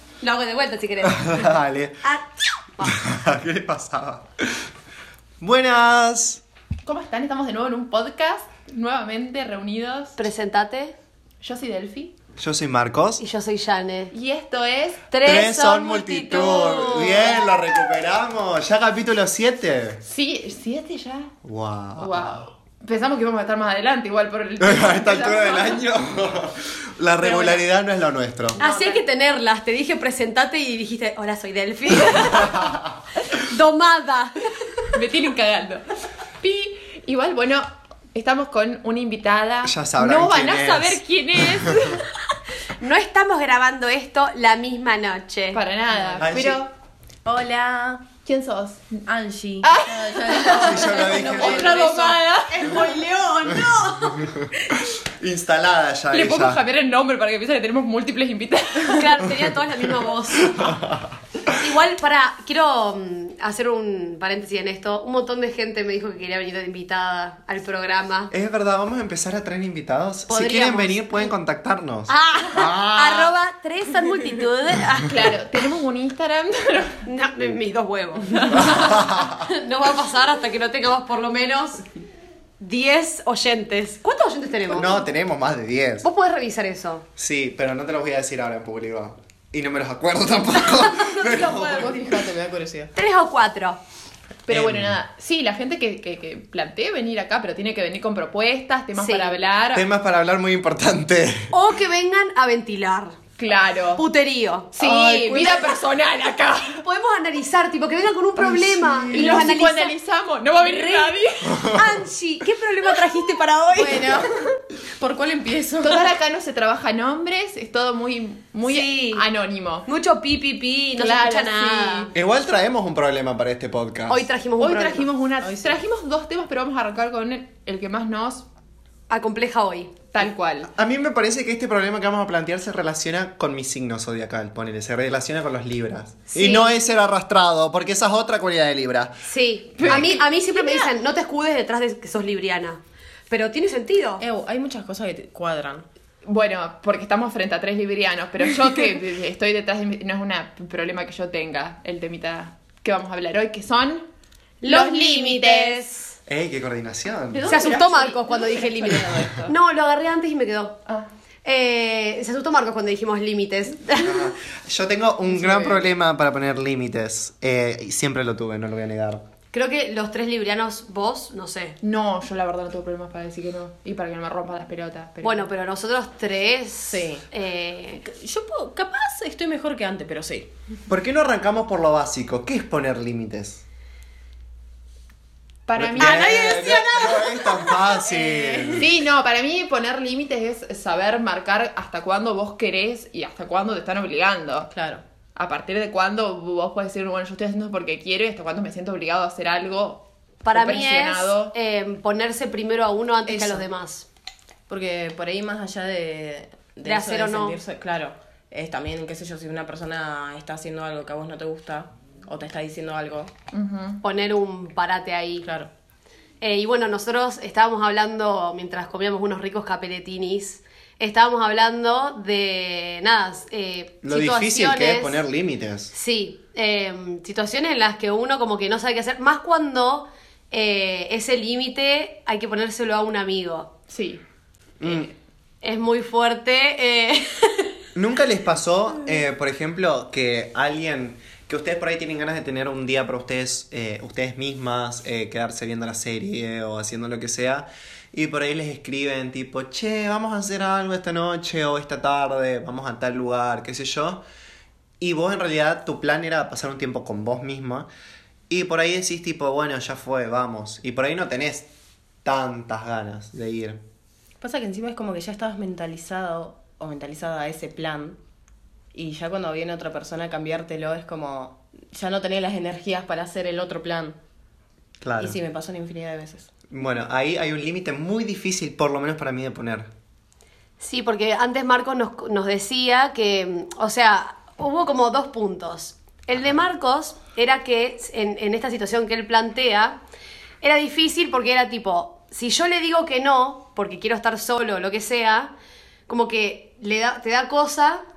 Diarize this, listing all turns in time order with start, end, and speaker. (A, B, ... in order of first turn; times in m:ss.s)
0:00.2-0:02.2 A
0:01.0-0:02.0 B
0:02.8-0:04.7 B
0:05.4-0:06.4 B
0:06.8-0:10.2 C
0:10.2-0:10.9 A
0:11.4-0:12.1 C
0:12.4-0:13.2 B
0:13.2-0:14.1 A
0:14.1-0:15.0 C
0:15.1-0:17.4 A
0:15.2-0:20.0 B
0:20.0-0:21.3 C
0:21.4-0:22.4 B
0:22.0-0:25.8 C
0:24.6-0:28.6 B
0:27.2-0:27.6 C
0:28.6-0:29.0 C
0:28.6-0:34.5 A
0:34.9-0:35.8 C
0:36.4-0:42.1 C
0:39.6-0:42.0 B
0:42.8-0:45.6 A
0:45.5-0:46.7 C
0:45.9-0:46.3 D
0:46.2-0:46.6 B
0:47.2-0:48.1 D
0:48.2-0:49.0 C
0:49.0-0:52.2 D
0:49.6-0:52.8 C
0:50.4-0:51.8 B
0:50.8-0:51.8 A
0:52.5-0:54.4 A
0:53.5-0:56.6 B
0:56.1-0:59.2 C
0:58.9-1:00.8 A
1:00.5-1:01.5 B
1:01.5-1:08.3 A
1:08.3-1:13.3 B
1:10.3-1:11.3 A
1:12.1-1:15.1 A
1:15.1-1:17.0 C
1:17.0-1:21.8 A
1:18.5-1:19.4 B
1:22.6-1:25.0 A
1:24.7-1:26.1 B
1:26.0-1:27.0 A
1:27.2-1:32.2 B
1:31.1-1:32.9 D
1:32.9-1:33.8 A
1:34.4-1:39.9 C
1:34.5-1:35.0 B
1:39.0-1:39.3 A
1:39.7-1:41.5 B
1:41.5-1:43.2 A
1:43.4-1:44.0 C
1:44.0-1:44.7 A
1:44.7-1:46.8 C
1:44.8-1:45.7 D
1:46.8-1:49.9 A
1:49.1-1:51.7 C
1:49.1-1:49.4 D
1:50.6-1:54.2 A
1:51.5-1:51.8 B
1:53.7-1:56.1 D
1:55.8-1:59.9 C
1:58.6-1:59.2 A
1:59.9-2:02.1 A
2:01.0-2:02.1 C
2:02.1-2:04.3 B
2:04.1-2:05.1 A
2:04.6-2:08.4 C
2:05.4-2:05.8 D
2:09.1-2:10.0 A
2:10.1-2:10.7 C
2:10.7-2:19.2 B
2:16.3-2:16.7 A
2:19.3-2:24.2 A
2:19.8-2:20.2 C
2:19.8-2:20.2 B
2:20.6-2:20.9 D
2:24.2-2:25.8 D
2:26.2-2:34.0 C
2:34.6-2:36.2 A
2:34.6-2:35.8 C
2:36.3-2:37.6 B
2:37.3-2:39.5 C
2:37.5-2:40.7 A
2:41.4-2:44.3 A
2:44.0-2:49.2 B
2:49.5-2:51.8 A
2:51.8-2:55.5 C
2:55.2-2:58.0 A
2:56.9-2:57.2 D
2:58.0-3:00.5 D
3:00.9-3:03.6 B
3:05.7-3:06.5 C
3:05.8-3:08.9 B
3:06.0-3:07.9 A
3:06.5-3:07.2 D
3:08.0-3:08.8 D
3:08.7-3:14.7 C
3:14.7-3:15.0 D
3:15.4-3:21.5 C
3:20.4-3:24.0 A
3:23.2-3:23.6 D
3:24.7-3:33.3 D
3:26.8-3:27.6 A
3:33.5-3:34.0 C
3:34.0-3:35.4 A
3:35.4-3:35.7 D
3:36.4-3:45.2 A
3:44.0-3:45.9 B
3:45.9-3:53.7 A
3:53.9-3:54.2 C
3:54.8-3:55.1 B
3:55.6-3:57.7 A
3:57.9-4:14.2 B
4:15.0-4:17.9 B
4:18.5-4:21.7 B
4:22.2-4:23.8 B
4:24.4-4:28.2 D
4:28.9-4:34.2 D
4:35.0-4:35.4 B
4:35.2-4:36.5 D
4:36.7-4:39.9 B
4:40.8-4:50.0 A
4:50.6-4:55.5 A
4:56.1-4:58.0 A